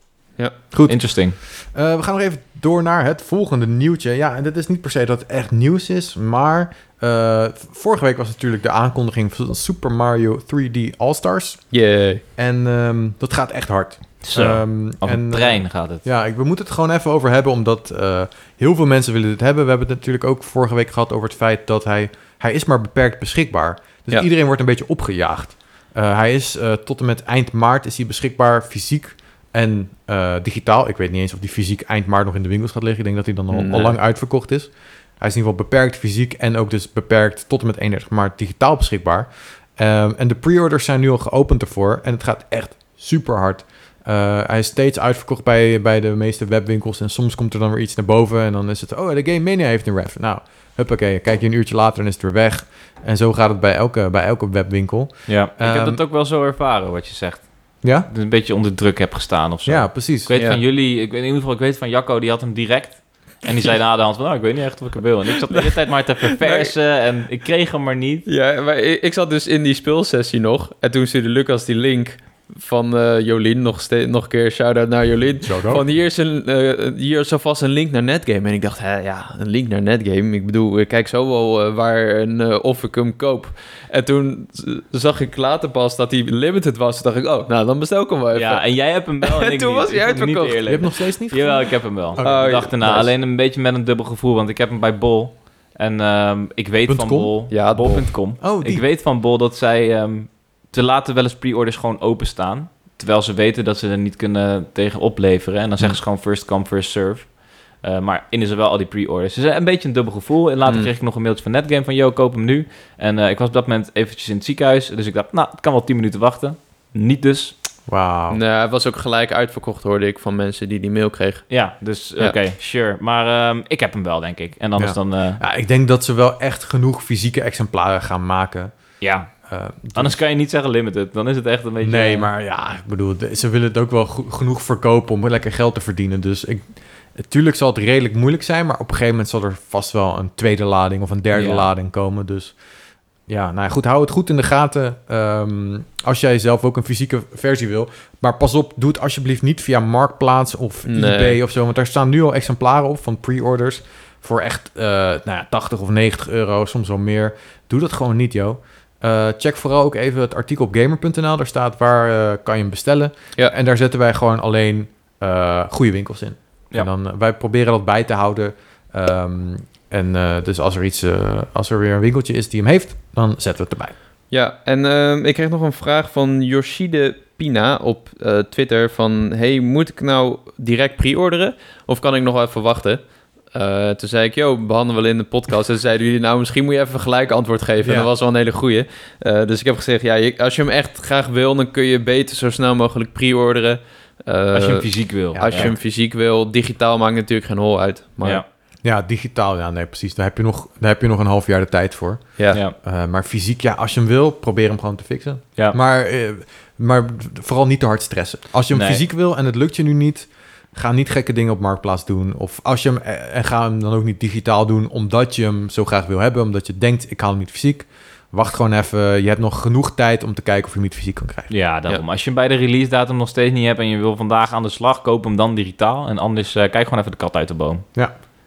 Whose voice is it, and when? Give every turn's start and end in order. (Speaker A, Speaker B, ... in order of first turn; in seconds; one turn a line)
Speaker A: 0.7-11.8
Speaker B: 0.9-1.4
Speaker C: 11.7-12.2
Speaker A: 12.3-56.0
Speaker B: 14.2-16.1
Speaker C: 33.5-34.0
Speaker B: 55.3-68.3
Speaker A: 57.8-58.1
Speaker A: 59.6-60.4
Speaker C: 60.3-60.6
Speaker C: 66.3-66.7
Speaker C: 68.2-90.6
Speaker A: 75.4-75.8
Speaker B: 88.3-117.5
Speaker A: 90.7-93.1
Speaker C: 92.2-93.1
Speaker A: 96.9-97.5
Speaker C: 97.5-98.1
Speaker A: 98.4-98.8
Speaker A: 117.9-118.4
Speaker C: 118.3-121.5
Speaker B: 121.5-125.4
Speaker A: 124.8-128.8
Speaker B: 129.0-132.3
Speaker A: 129.4-130.2
Speaker A: 131.8-142.6
Speaker B: 141.3-141.7
Speaker A: 143.3-173.9
Speaker C: 150.9-151.4
Speaker C: 174.3-198.4
Speaker A: 187.8-188.1
Speaker B: 194.5-195.8
Speaker A: 195.3-195.8
Speaker A: 198.8-221.5
Speaker C: 202.4-202.6
Speaker B: 208.7-209.0
Speaker B: 221.5-228.0